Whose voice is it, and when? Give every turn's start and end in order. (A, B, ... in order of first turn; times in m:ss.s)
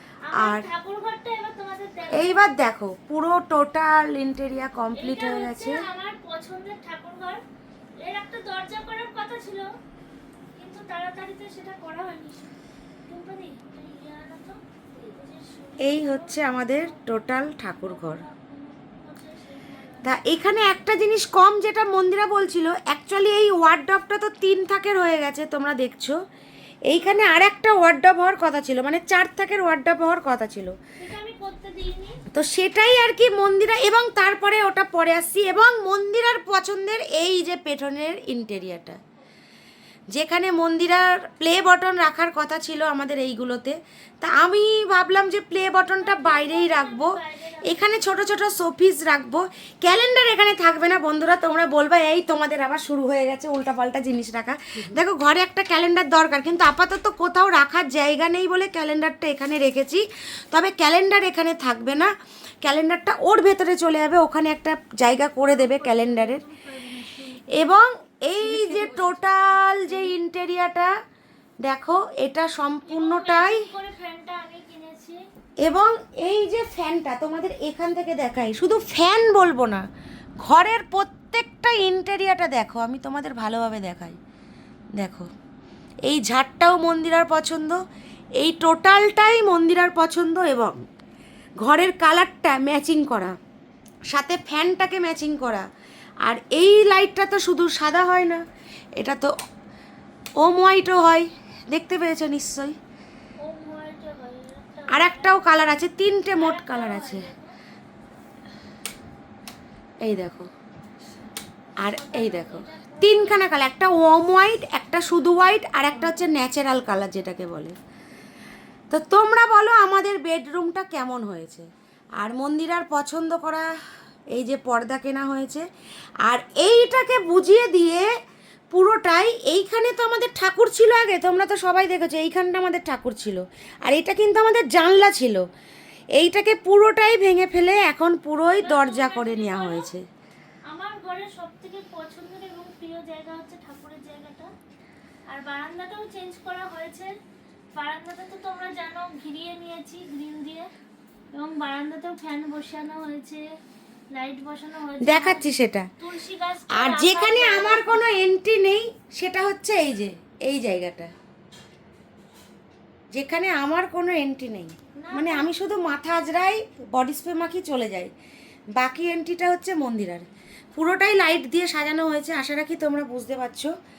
0:00.3-0:02.4 A
0:00.4-0:00.7 B
0:02.1-0:05.8 B
0:04.9-0:07.4 A
0:08.0-0:09.7 A
0:10.6-0:12.5 A
0:13.1-0:17.0 A
0:15.8-0:18.2 B
0:17.8-0:20.2 A
0:20.0-0:26.2 B
0:26.9-0:30.7 B
0:26.9-0:27.2 A
0:31.0-0:32.2 A
0:32.3-0:39.0 B
0:40.1-1:06.4 B
0:46.0-0:48.2 A
1:05.4-1:07.5 A
1:07.5-1:10.9 B
1:11.6-1:13.6 B
1:12.8-1:15.2 A
1:15.6-1:19.8 B
1:20.4-1:24.2 B
1:25.0-1:25.3 B
1:26.1-1:27.8 B
1:28.4-1:30.8 B
1:31.6-1:33.4 B
1:34.1-1:35.6 B
1:36.2-1:38.4 B
1:39.0-1:39.3 B
1:40.4-1:42.8 B
1:43.4-1:45.8 A
1:44.9-1:47.3 B
1:46.4-1:47.5 A
1:50.0-1:50.5 B
1:51.8-1:57.8 B
1:51.8-1:53.5 A
1:58.9-2:03.7 B
2:04.3-2:05.7 B
2:06.2-2:08.1 B
2:08.7-2:15.4 B
2:16.2-2:20.0 B
2:18.6-2:19.9 A
2:20.7-2:24.5 A
2:25.3-2:27.1 A
2:27.7-2:30.7 A
2:31.3-2:33.5 A
2:34.1-2:35.4 A
2:35.0-2:35.9 B
2:36.0-2:38.0 A
2:36.7-2:41.1 B
2:43.1-2:48.1 B
2:45.0-2:45.5 A
2:48.8-2:53.7 B